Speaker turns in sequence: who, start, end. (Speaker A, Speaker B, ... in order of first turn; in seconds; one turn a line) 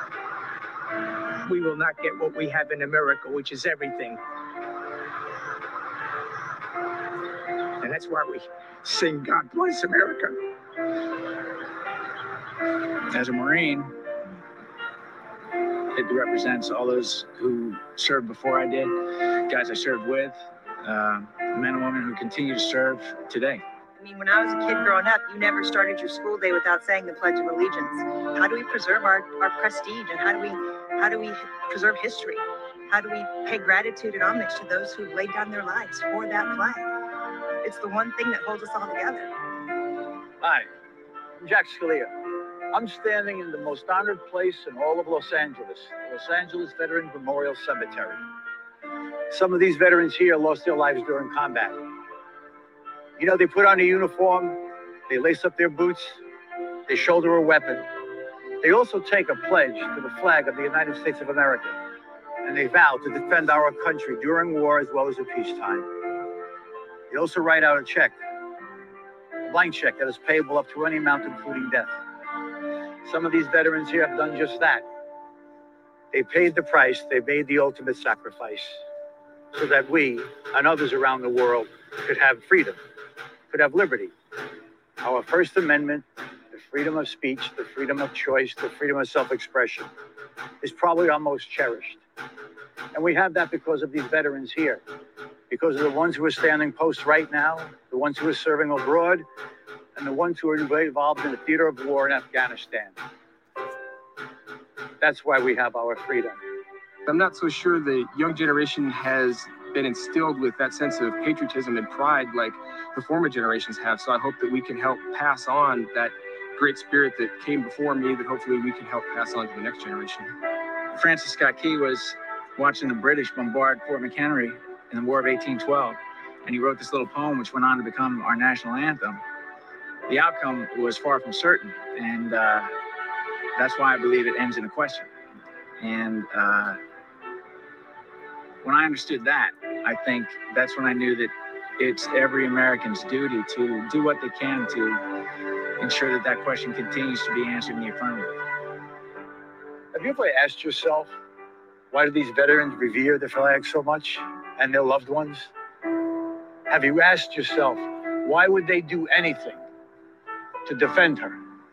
Speaker A: 1.4-4.2
Speaker A: 7.8-10.3
Speaker B: 13.1-13.9
Speaker B: 15.9-23.6
Speaker C: 23.9-36.9
Speaker C: 37.6-39.3
Speaker D: 40.4-40.7
Speaker D: 41.4-42.1
Speaker D: 42.7-48.2
Speaker D: 49.3-51.8
Speaker D: 53.2-56.2
Speaker D: 56.9-57.9
Speaker D: 58.6-61.8
Speaker D: 62.4-65.9
Speaker D: 67.1-68.2
Speaker D: 69.4-72.0
Speaker D: 73.0-74.8
Speaker D: 76.1-78.8
Speaker D: 79.5-82.8
Speaker D: 83.5-84.1
Speaker D: 85.0-89.9
Speaker D: 90.6-92.0
Speaker D: 92.9-94.8
Speaker D: 95.5-99.2
Speaker D: 99.9-103.0
Speaker D: 105.0-106.4
Speaker E: 107.0-120.3
Speaker B: 120.9-129.2
Speaker B: 130.1-132.7
Speaker B: 133.6-135.1
Speaker B: 135.8-136.8
Speaker B: 138.6-145.0
Speaker B: 145.8-148.3
Speaker D: 149.9-151.1
Speaker D: 151.9-155.5
Speaker D: 156.7-159.6
Speaker D: 160.6-161.4